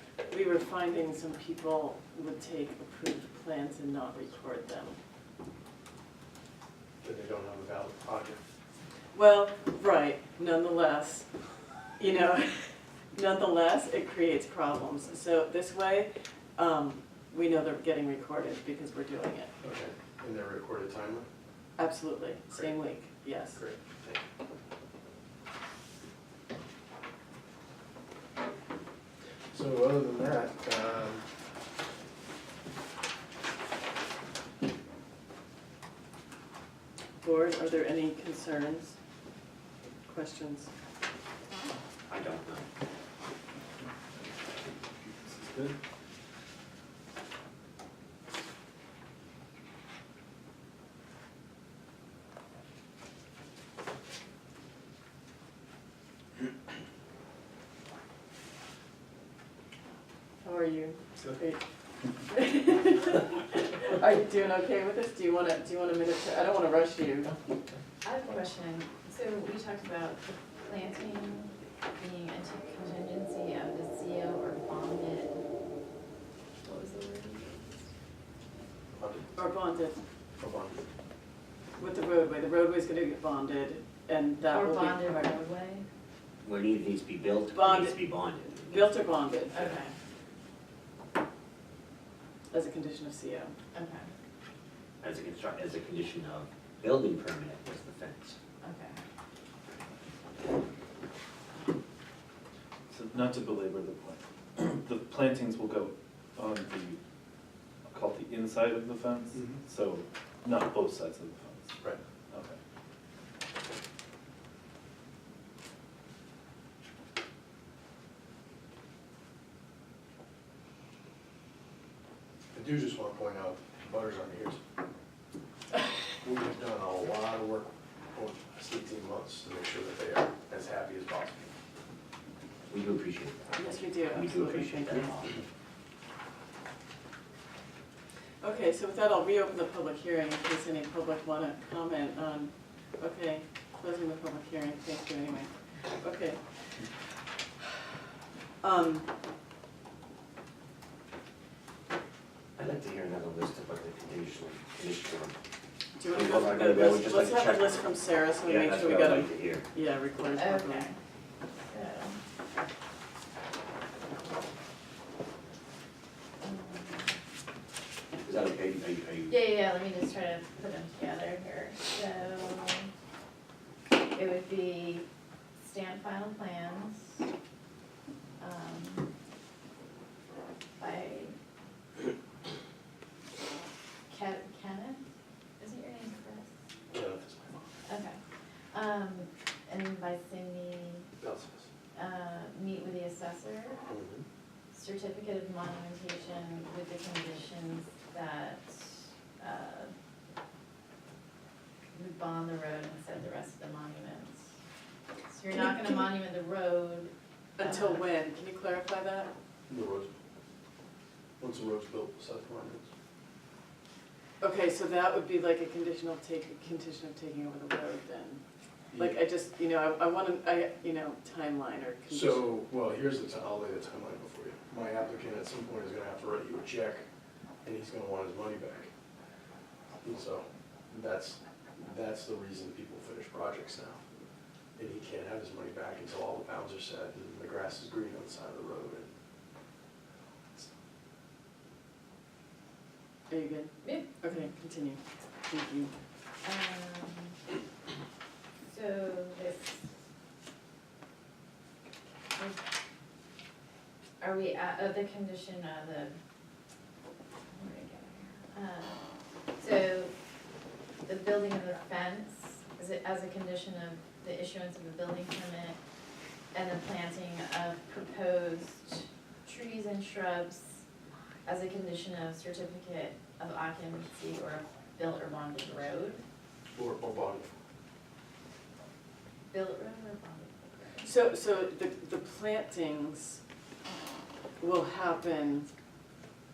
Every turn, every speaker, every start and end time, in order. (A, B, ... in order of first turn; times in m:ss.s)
0:00.3-0:05.0 A
0:07.0-0:08.4 B
0:09.1-0:11.3 A
0:12.0-0:19.5 A
0:19.6-0:21.3 B
0:21.8-0:23.6 A
0:23.5-0:24.2 B
0:29.5-0:31.2 B
0:37.2-0:39.0 A
0:40.0-0:40.7 A
0:42.1-0:42.7 C
0:45.0-0:45.8 D
1:00.4-1:01.6 A
1:02.2-1:07.4 A
1:08.0-1:15.4 E
1:16.6-1:17.8 E
1:18.9-1:19.3 B
1:19.3-1:20.0 A
1:20.4-1:20.8 B
1:21.8-1:25.4 A
1:24.5-1:25.8 E
1:26.4-1:29.0 C
1:27.5-1:29.6 A
1:29.5-1:29.9 E
1:32.5-1:33.5 A
1:33.7-1:34.1 E
1:35.0-1:38.4 C
1:38.6-1:39.0 E
1:42.9-1:47.0 D
1:47.9-1:51.8 D
1:49.3-1:49.6 B
1:52.3-1:52.6 D
2:02.5-2:04.6 B
2:06.2-2:11.5 B
2:12.7-2:15.4 C
2:13.5-2:15.3 A
2:18.4-2:26.4 A
2:28.6-2:29.1 A
2:32.6-2:35.4 C
2:36.0-2:40.8 A
2:36.1-2:37.8 C
2:38.4-2:39.6 C
2:40.3-2:41.0 E
2:41.5-2:42.2 E
2:46.4-2:47.1 E
2:48.2-2:49.4 C
2:49.3-2:52.9 E
2:54.0-2:55.0 E
2:55.6-2:57.2 E
2:58.4-2:59.1 E
3:00.8-3:01.3 E
3:04.1-3:05.0 E
3:05.6-3:06.5 E
3:06.9-3:07.7 B
3:07.8-3:08.2 E
3:08.7-3:11.1 E
3:11.2-3:11.7 B
3:11.9-3:13.8 E
3:13.9-3:14.2 B
3:14.7-3:19.9 E
3:21.9-3:24.4 E
3:25.3-3:28.0 E
3:27.6-3:29.3 A
3:29.7-3:30.1 B
3:31.4-3:32.9 B
3:34.4-3:38.4 A
3:38.9-3:39.2 B
3:39.0-3:42.5 A
3:42.1-3:47.0 B
3:47.6-3:48.9 B
3:50.0-3:54.0 B
3:54.8-3:59.1 B
4:03.3-4:05.9 A
4:03.8-4:04.4 E
4:06.4-4:07.4 E
4:08.6-4:09.9 E
4:14.2-4:16.2 E
4:17.5-4:19.0 E
4:19.6-4:20.1 E
4:21.0-4:25.8 E
4:26.5-4:30.8 E
4:31.4-4:36.2 E
4:36.7-4:37.6 B
4:39.5-4:41.1 E
4:41.0-4:43.4 A
4:44.6-4:45.7 A